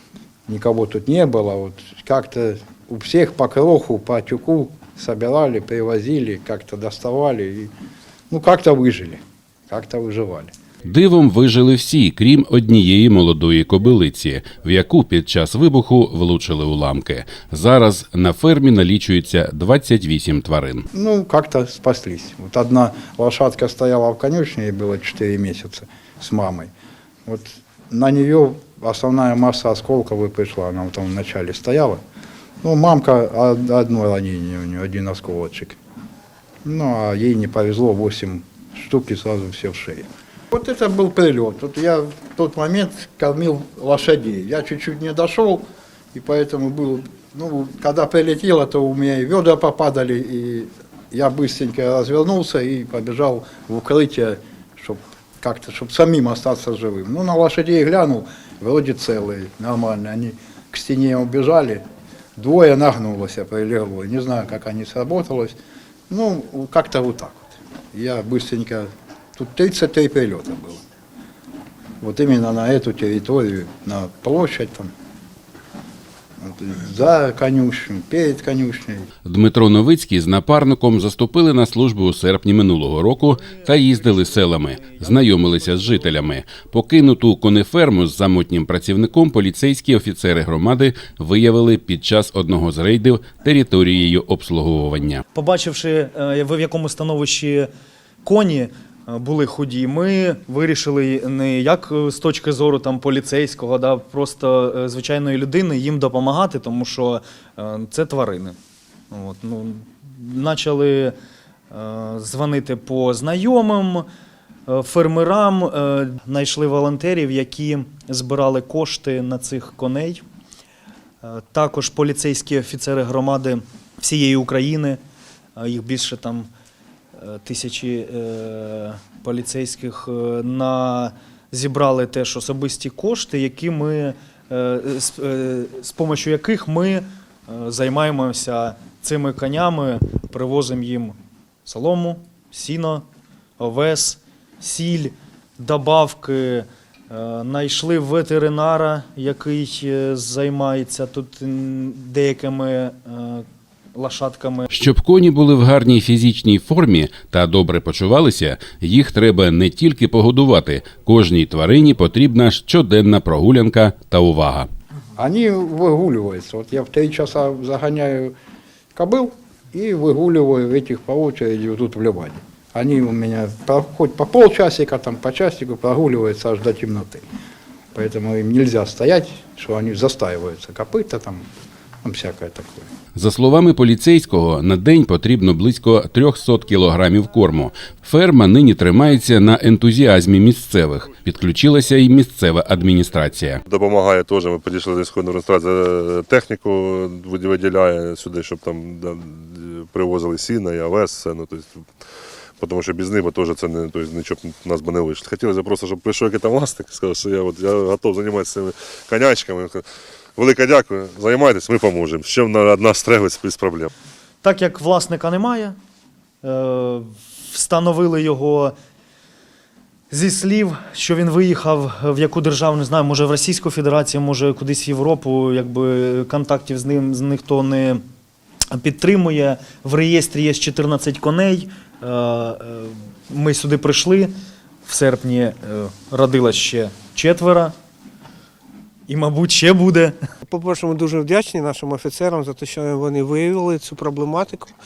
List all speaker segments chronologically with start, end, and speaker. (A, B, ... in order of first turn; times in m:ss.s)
0:00.5-0:07.7 A
0:08.3-0:10.5 A
0:10.9-0:20.8 B
0:20.9-0:26.7 A
0:27.3-0:32.0 A
0:32.6-0:35.8 A
0:36.6-1:01.8 A
1:02.4-1:05.6 A
1:06.1-1:10.8 A
1:12.0-1:14.9 A
1:16.4-1:19.1 A
1:19.2-1:35.2 B
1:35.3-1:37.7 C
1:38.2-1:48.5 C
1:49.1-1:51.1 C
1:51.7-1:54.1 C
1:54.7-2:00.2 C
2:01.2-2:05.0 C
2:05.6-2:06.5 C
2:07.2-2:23.0 C
2:23.6-2:34.8 C
2:34.7-2:44.7 B
2:45.2-2:48.3 A
2:48.9-2:57.2 A
2:57.9-3:01.4 A
3:02.0-3:02.9 A
3:03.2-3:13.6 B
3:13.6-3:21.8 D
3:22.6-3:33.9 D
3:34.4-3:35.7 C
3:36.4-3:38.7 C
3:40.1-3:48.0 C
3:48.7-3:54.3 C
3:54.8-3:57.7 C
3:59.1-4:00.2 C
4:00.5-4:04.7 E